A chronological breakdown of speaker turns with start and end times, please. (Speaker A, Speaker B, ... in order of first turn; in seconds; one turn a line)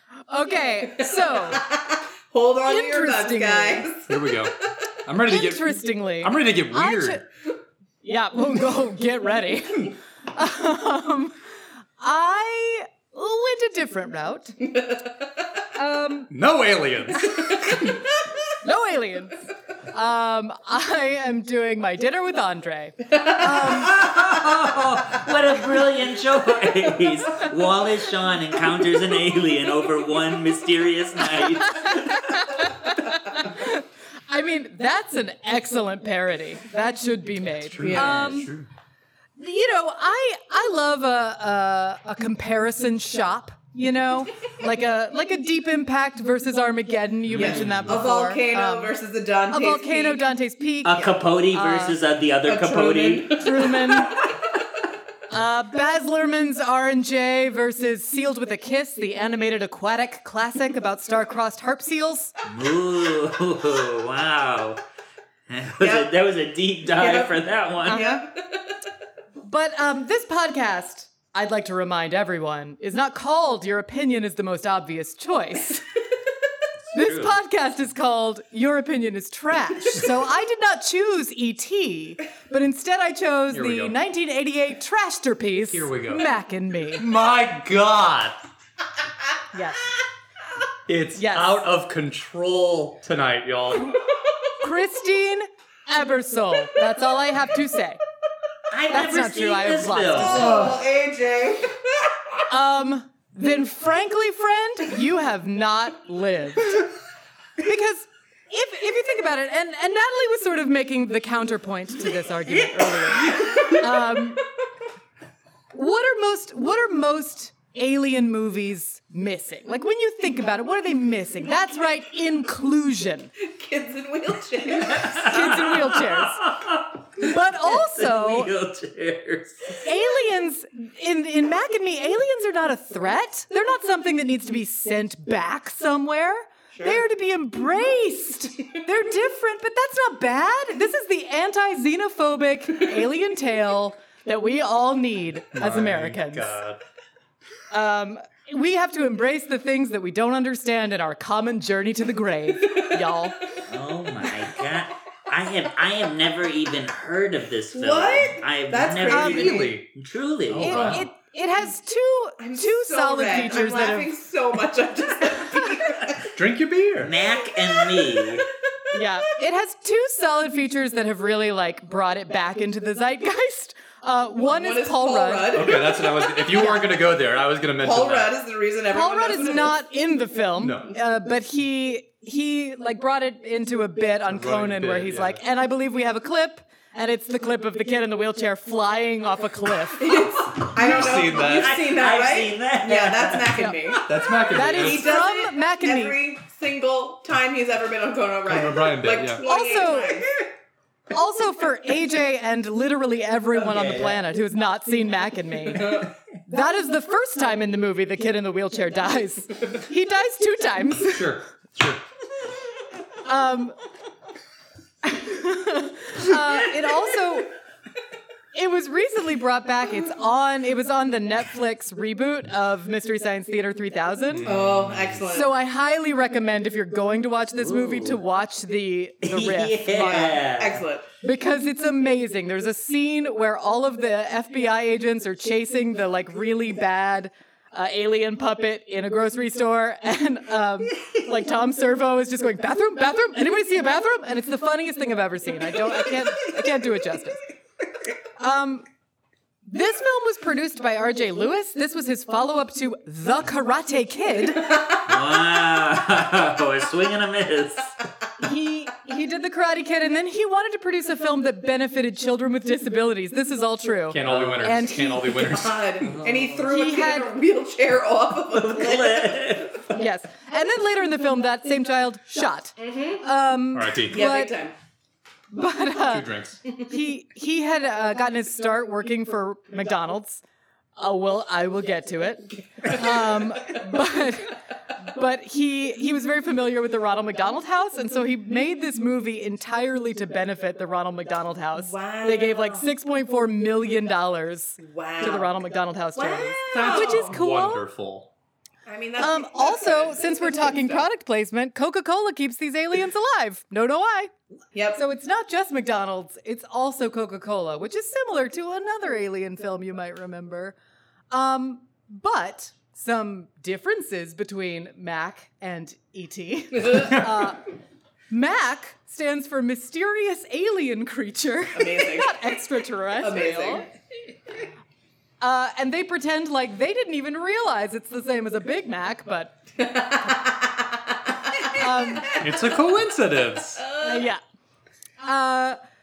Speaker A: 0.3-1.6
Speaker B: 0.8-4.5
Speaker A: 2.7-3.9
Speaker C: 4.1-4.5
Speaker C: 5.1-7.2
Speaker A: 5.2-7.2
Speaker A: 8.0-11.4
Speaker A: 12.0-14.6
Speaker B: 14.7-15.1
Speaker A: 15.8-16.3
Speaker C: 16.3-17.7
Speaker B: 17.5-18.0
Speaker A: 18.6-19.4
Speaker A: 19.9-24.0
Speaker D: 23.8-32.5
Speaker A: 31.4-38.5
Speaker C: 37.6-38.7
Speaker B: 37.8-38.4
Speaker A: 39.4-49.0
Speaker C: 47.3-48.0
Speaker B: 47.3-50.2
Speaker A: 49.5-52.0
Speaker D: 50.8-53.6
Speaker B: 52.5-54.3
Speaker A: 53.4-54.1
Speaker A: 55.3-62.3
Speaker D: 62.4-64.8
Speaker D: 65.5-68.0
Speaker B: 65.8-66.1
Speaker B: 66.9-68.8
Speaker A: 67.8-68.2
Speaker A: 69.4-75.8
Speaker D: 76.9-77.4
Speaker A: 76.9-87.1
Speaker C: 83.5-84.0
Speaker C: 85.7-86.3
Speaker C: 87.0-88.4
Speaker A: 89.5-89.9
Speaker C: 90.9-94.0
Speaker A: 91.2-91.7
Speaker A: 94.6-98.0
Speaker D: 98.7-100.7
Speaker A: 98.9-100.8
Speaker B: 100.2-102.1
Speaker A: 102.5-106.9
Speaker A: 107.6-114.4
Speaker D: 113.1-113.8
Speaker A: 115.7-123.3
Speaker B: 123.4-125.3
Speaker D: 124.7-129.9
Speaker A: 125.2-126.4
Speaker A: 127.2-128.5
Speaker A: 129.8-146.6
Speaker B: 136.7-137.0
Speaker C: 145.5-146.8
Speaker A: 147.7-153.4
Speaker D: 153.7-161.1
Speaker B: 157.7-159.8
Speaker A: 159.1-159.6
Speaker C: 159.3-159.9
Speaker C: 160.5-161.1
Speaker A: 160.6-164.1
Speaker B: 162.4-166.3
Speaker C: 166.3-167.1
Speaker D: 167.0-168.4
Speaker B: 167.2-168.4
Speaker A: 168.9-175.9
Speaker B: 174.4-176.6
Speaker C: 175.5-178.3
Speaker A: 176.5-176.9
Speaker B: 177.8-179.8
Speaker A: 178.9-190.2
Speaker C: 180.6-180.9
Speaker C: 184.3-185.4
Speaker B: 190.0-200.3
Speaker C: 190.7-191.8
Speaker D: 191.4-193.7
Speaker A: 193.6-193.9
Speaker C: 194.1-195.1
Speaker A: 194.5-196.2
Speaker C: 198.5-199.4
Speaker A: 199.4-200.3
Speaker A: 201.1-211.4
Speaker B: 203.6-204.1
Speaker C: 211.1-212.0
Speaker A: 213.2-213.8
Speaker A: 215.0-217.5
Speaker A: 218.5-224.6
Speaker C: 224.3-224.9
Speaker B: 224.5-225.5
Speaker D: 224.5-225.2
Speaker A: 225.3-230.4
Speaker D: 227.6-228.2
Speaker D: 229.2-230.8
Speaker B: 229.9-231.1
Speaker A: 231.2-247.4
Speaker A: 248.4-248.9
Speaker A: 249.7-254.9
Speaker B: 254.7-255.0
Speaker D: 255.1-258.0
Speaker A: 258.4-265.4
Speaker C: 264.1-266.1
Speaker D: 264.2-264.7
Speaker B: 265.3-269.8
Speaker D: 266.1-266.6
Speaker A: 266.6-267.3
Speaker D: 268.5-269.8
Speaker A: 269.9-274.6
Speaker B: 272.8-273.2
Speaker C: 273.7-274.2
Speaker B: 274.1-274.8
Speaker A: 275.5-280.4
Speaker C: 276.1-276.6
Speaker A: 281.0-297.9
Speaker B: 291.8-292.9
Speaker B: 294.8-295.6
Speaker B: 296.1-297.4
Speaker C: 296.7-298.3
Speaker B: 298.9-301.1
Speaker A: 299.2-304.3
Speaker B: 304.7-305.0
Speaker A: 304.9-310.8
Speaker A: 311.3-317.6
Speaker A: 318.3-323.9
Speaker B: 321.8-322.5
Speaker B: 323.2-323.9
Speaker A: 325.4-329.6
Speaker B: 329.8-331.0
Speaker B: 331.5-332.5
Speaker A: 331.7-332.3
Speaker C: 332.4-333.9
Speaker B: 333.8-334.2
Speaker A: 334.0-334.4
Speaker A: 335.2-335.8